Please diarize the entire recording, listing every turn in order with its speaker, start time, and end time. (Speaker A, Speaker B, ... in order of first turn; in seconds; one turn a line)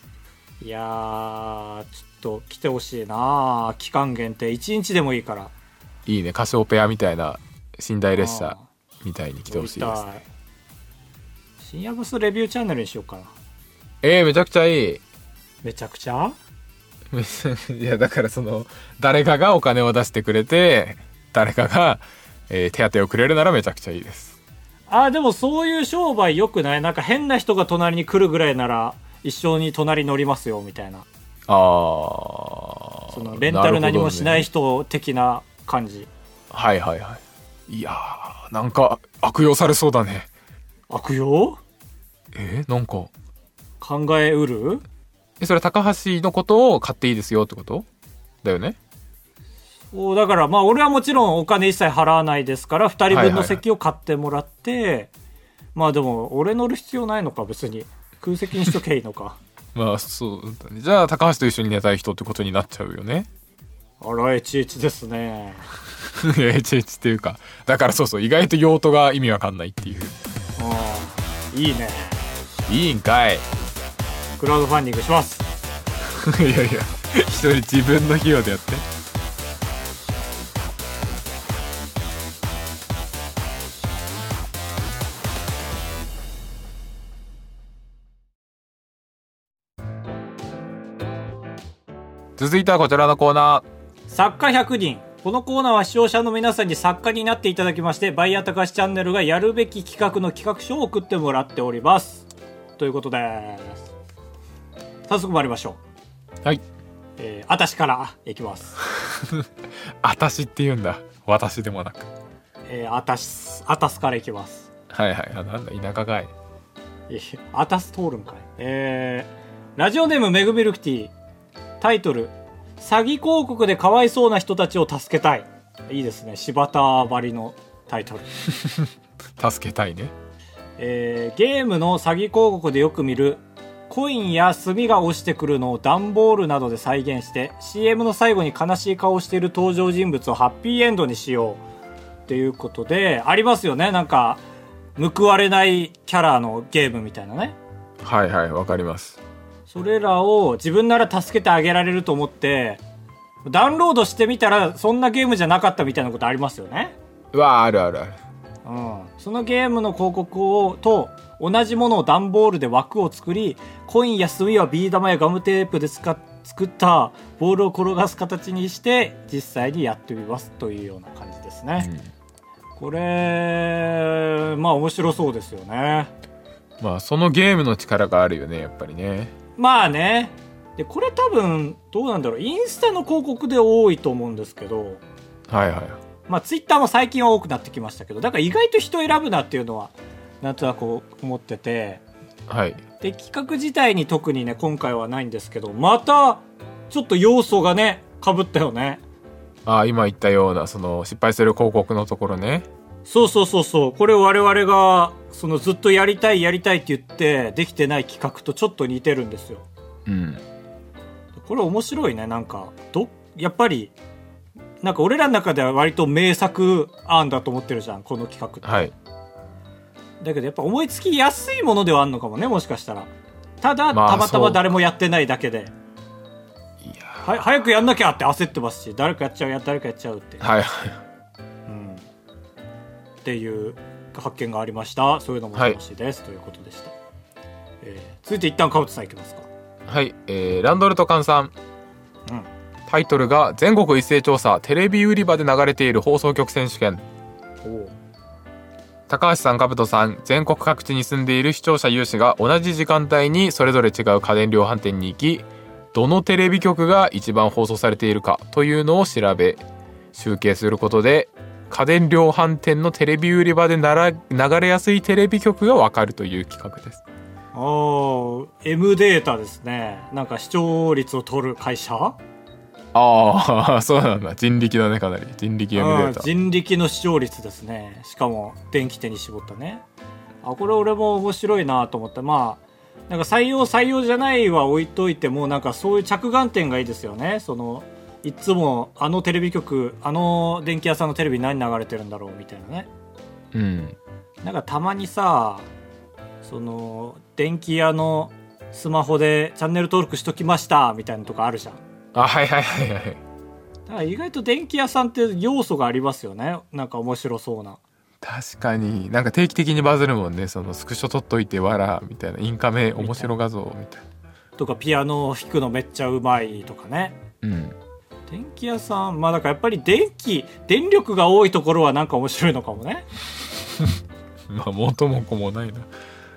Speaker A: 0.6-5.5
Speaker B: 6.1-10.0
Speaker A: 8.1-8.6
Speaker A: 9.5-10.2
Speaker A: 11.6-13.3
Speaker B: 14.0-15.0
Speaker A: 15.6-16.4
Speaker B: 17.1-24.4
Speaker A: 24.9-31.1
Speaker B: 31.5-34.5
Speaker A: 33.1-36.1
Speaker B: 36.5-40.3
Speaker A: 40.9-41.6
Speaker B: 42.3-43.1
Speaker A: 43.8-44.8
Speaker B: 45.4-47.9
Speaker B: 48.4-48.8
Speaker A: 49.9-55.1
Speaker B: 53.1-53.6
Speaker A: 55.8-59.4
Speaker B: 59.8-63.3
Speaker A: 64.0-65.6
Speaker B: 66.2-70.1
Speaker A: 70.6-72.3
Speaker B: 72.7-73.4
Speaker A: 74.4-75.5
Speaker B: 76.0-78.8
Speaker B: 92.4-93.6
Speaker A: 94.1-102.3
Speaker A: 102.8-103.9
Speaker A: 105.1-105.8
Speaker A: 107.2-108.8
Speaker B: 108.9-109.5
Speaker B: 110.0-112.1
Speaker A: 112.7-114.7
Speaker B: 114.9-116.3
Speaker A: 117.1-121.1
Speaker A: 121.8-128.3
Speaker B: 129.4-130.1
Speaker A: 130.8-141.6
Speaker A: 142.3-144.4
Speaker A: 145.0-147.6
Speaker B: 148.0-149.2
Speaker A: 149.7-152.8
Speaker A: 153.4-156.9
Speaker B: 157.3-158.2
Speaker A: 158.6-171.9
Speaker B: 171.8-172.1
Speaker A: 172.8-176.1
Speaker B: 176.8-179.3
Speaker A: 179.6-185.0
Speaker B: 185.5-186.0
Speaker A: 186.3-192.0
Speaker B: 192.5-192.8
Speaker A: 193.0-199.0
Speaker B: 199.7-202.7
Speaker A: 203.1-209.7
Speaker B: 210.1-210.4
Speaker A: 211.4-213.9
Speaker A: 214.8-218.9
Speaker B: 218.6-218.9
Speaker A: 220.2-225.7
Speaker B: 223.9-224.7
Speaker B: 226.8-227.3
Speaker A: 227.2-230.4
Speaker B: 230.4-231.0
Speaker A: 231.7-232.1
Speaker A: 233.2-236.9
Speaker A: 237.8-239.5
Speaker B: 239.9-241.5
Speaker B: 242.9-247.0
Speaker A: 247.6-247.9
Speaker B: 249.1-259.6
Speaker B: 260.1-267.0
Speaker A: 267.5-272.2
Speaker B: 272.9-276.3
Speaker A: 275.7-279.8
Speaker A: 280.4-292.9
Speaker B: 293.5-294.0
Speaker A: 294.4-295.7
Speaker A: 296.4-301.8
Speaker B: 302.1-303.2
Speaker A: 303.9-307.8
Speaker B: 308.2-314.0
Speaker A: 313.0-313.3
Speaker A: 314.6-317.2
Speaker B: 317.4-317.7
Speaker A: 318.3-323.1
Speaker B: 324.5-325.9